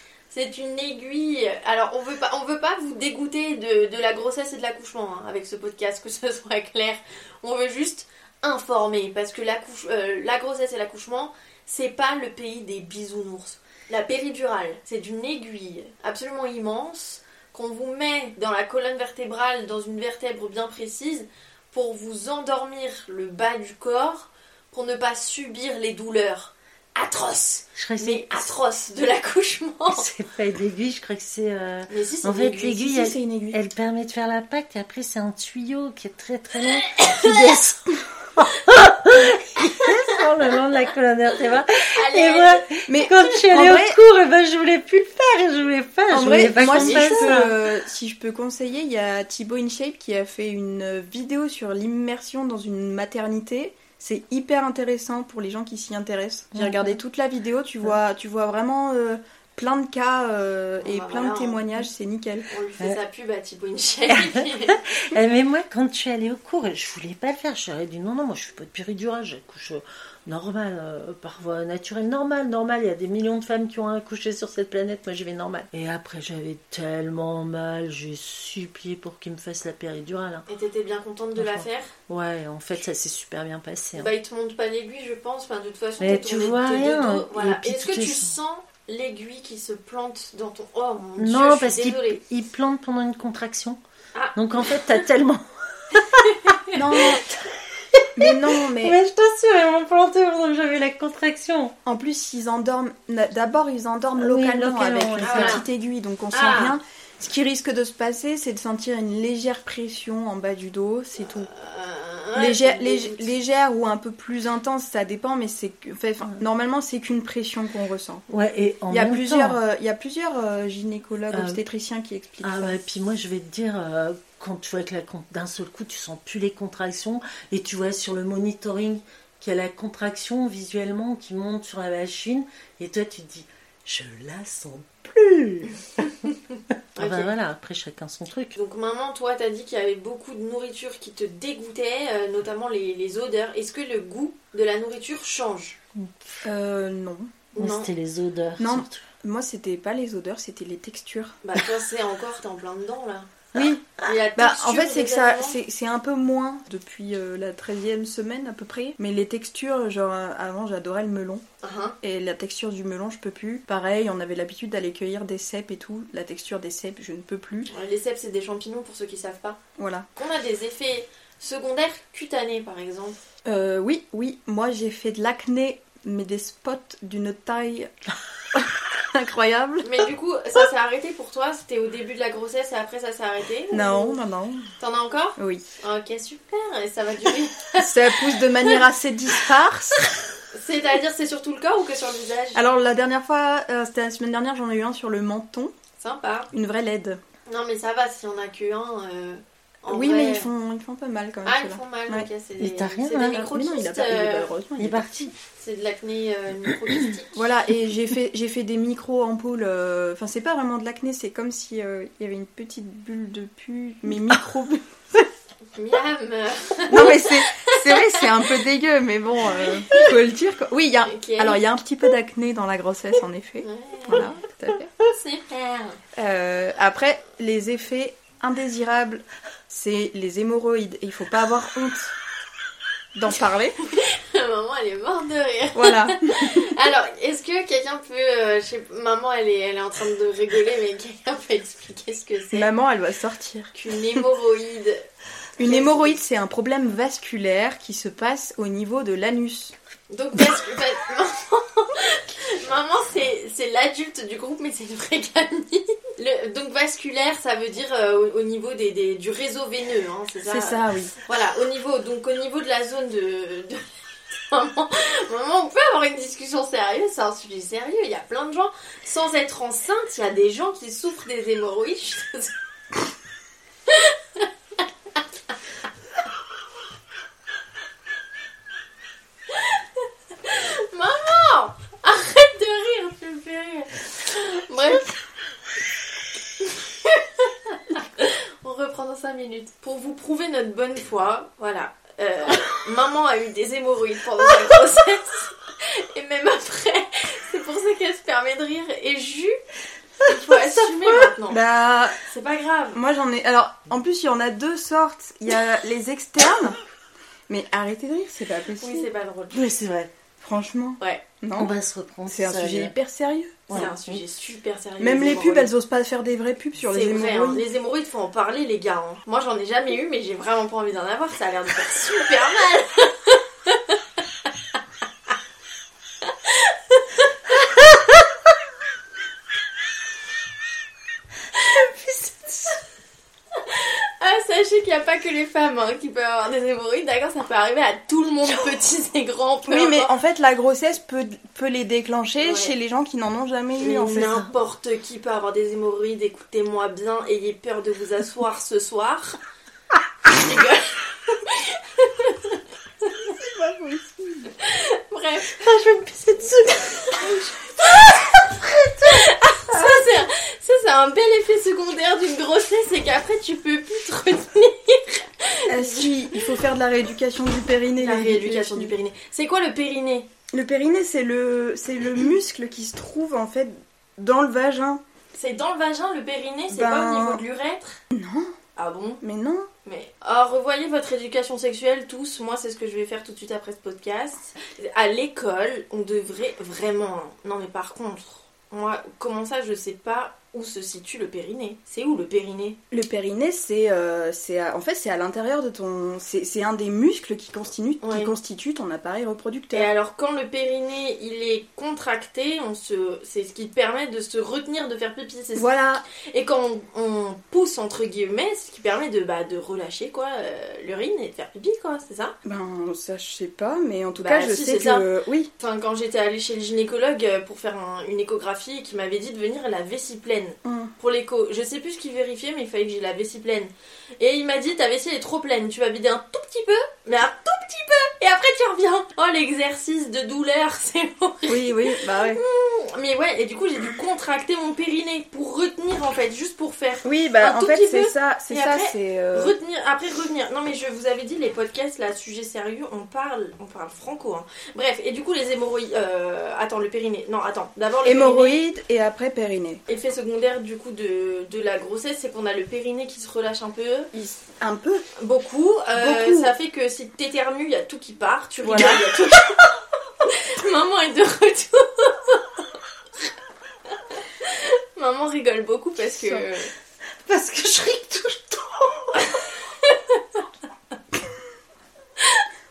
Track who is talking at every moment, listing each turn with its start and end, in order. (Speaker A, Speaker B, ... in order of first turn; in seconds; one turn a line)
Speaker A: 0.3-30.1
Speaker B: 27.8-28.5
Speaker B: 29.9-47.5
Speaker A: 31.9-32.9
Speaker C: 32.8-33.6
Speaker A: 36.6-37.5
Speaker A: 41.9-42.6
Speaker C: 42.9-44.0
Speaker C: 46.1-62.5
Speaker A: 46.5-47.4
Speaker B: 56.5-57.0
Speaker A: 60.8-61.7
Speaker A: 62.5-64.8
Speaker B: 64.1-80.5
Speaker A: 80.5-81.9
Speaker B: 81.4-84.1
Speaker A: 84.0-92.2
Speaker B: 86.0-88.3
Speaker B: 91.2-93.8
Speaker B: 94.3-101.7
Speaker A: 96.3-96.8
Speaker C: 96.7-97.2
Speaker C: 98.2-99.0
Speaker C: 101.8-111.5
Speaker B: 104.2-105.6
Speaker A: 105.2-105.6
Speaker A: 106.3-106.8
Speaker A: 111.2-113.3
Speaker C: 112.4-118.2
Speaker B: 118.3-119.6
Speaker C: 118.9-122.8
Speaker B: 121.3-121.6
Speaker B: 122.4-136.2
Speaker A: 136.5-137.3
Speaker B: 136.9-138.5
Speaker A: 138.5-145.8
Speaker B: 145.9-146.4
Speaker C: 146.4-147.4
Speaker A: 147.5-147.9
Speaker B: 147.6-149.0
Speaker C: 148.6-151.4
Speaker A: 151.4-155.6
Speaker C: 153.5-161.4
Speaker A: 161.6-161.9
Speaker C: 162.0-167.7
Speaker A: 167.7-169.6
Speaker C: 169.8-170.1
Speaker A: 170.1-173.2
Speaker C: 173.4-177.9
Speaker C: 178.5-180.0
Speaker A: 179.8-184.2
Speaker C: 183.7-184.7
Speaker A: 184.8-188.8
Speaker C: 185.4-185.6
Speaker C: 187.8-190.0
Speaker A: 190.5-192.6
Speaker C: 192.5-195.7
Speaker A: 196.0-196.5
Speaker C: 196.5-197.2
Speaker A: 197.5-200.5
Speaker C: 199.9-202.3
Speaker A: 201.4-204.5
Speaker B: 202.6-203.4
Speaker C: 203.3-205.3
Speaker B: 204.8-205.3
Speaker A: 205.6-207.5
Speaker C: 207.3-214.9
Speaker A: 215.7-218.3
Speaker C: 216.9-224.9
Speaker A: 219.6-220.2
Speaker A: 221.0-221.6
Speaker A: 223.6-224.3
Speaker A: 225.0-226.0
Speaker C: 226.1-232.1
Speaker C: 233.1-233.8
Speaker A: 233.8-242.7
Speaker C: 235.7-236.6
Speaker C: 242.5-244.2
Speaker A: 243.7-245.0
Speaker C: 245.6-249.7
Speaker A: 245.6-246.1
Speaker A: 250.1-272.5
Speaker C: 260.4-261.1
Speaker A: 273.9-275.2
Speaker A: 279.5-279.8
Speaker A: 280.4-285.2
Speaker A: 286.6-299.6
Speaker A: 300.2-301.6
Speaker C: 301.5-302.2
Speaker A: 302.2-303.0
Speaker C: 302.9-306.8
Speaker C: 307.5-309.1
Speaker A: 308.8-309.6
Speaker B: 309.5-310.1
Speaker C: 310.4-311.7
Speaker B: 311.6-312.9
Speaker C: 312.3-313.9
Speaker A: 313.7-315.7
Speaker B: 313.7-314.2
Speaker C: 315.0-317.6
Speaker A: 316.8-324.0
Speaker A: 326.2-327.3
Speaker B: 331.6-332.8
Speaker A: 333.5-340.1
Speaker C: 339.7-344.3
Speaker A: 342.4-342.7
Speaker A: 343.8-349.4
Speaker B: 344.0-344.5
Speaker A: 350.3-353.3
Speaker C: 353.3-354.5
Speaker A: 354.6-355.6
Speaker B: 355.5-358.7
Speaker A: 356.5-366.5
Speaker C: 359.7-360.1
Speaker C: 365.6-368.9
Speaker A: 368.0-370.3
Speaker C: 370.5-375.0
Speaker A: 375.3-378.0
Speaker C: 376.7-377.4
Speaker C: 378.1-378.5
Speaker A: 378.8-379.2
Speaker C: 379.2-379.7
Speaker A: 379.8-392.8
Speaker C: 392.9-399.9
Speaker A: 398.0-398.3
Speaker A: 399.7-412.4
Speaker C: 405.5-406.0
Speaker C: 412.4-415.5
Speaker A: 414.2-415.1
Speaker A: 415.6-448.6
Speaker C: 420.6-420.9
Speaker C: 431.5-432.4
Speaker C: 437.0-439.6
Speaker C: 448.0-449.8
Speaker A: 449.9-454.1
Speaker C: 454.1-455.0
Speaker A: 455.2-462.6
Speaker C: 455.9-456.5
Speaker C: 458.6-459.1
Speaker A: 463.9-466.7
Speaker C: 466.1-466.4
Speaker B: 467.2-469.5
Speaker A: 469.8-470.4
Speaker A: 472.2-472.4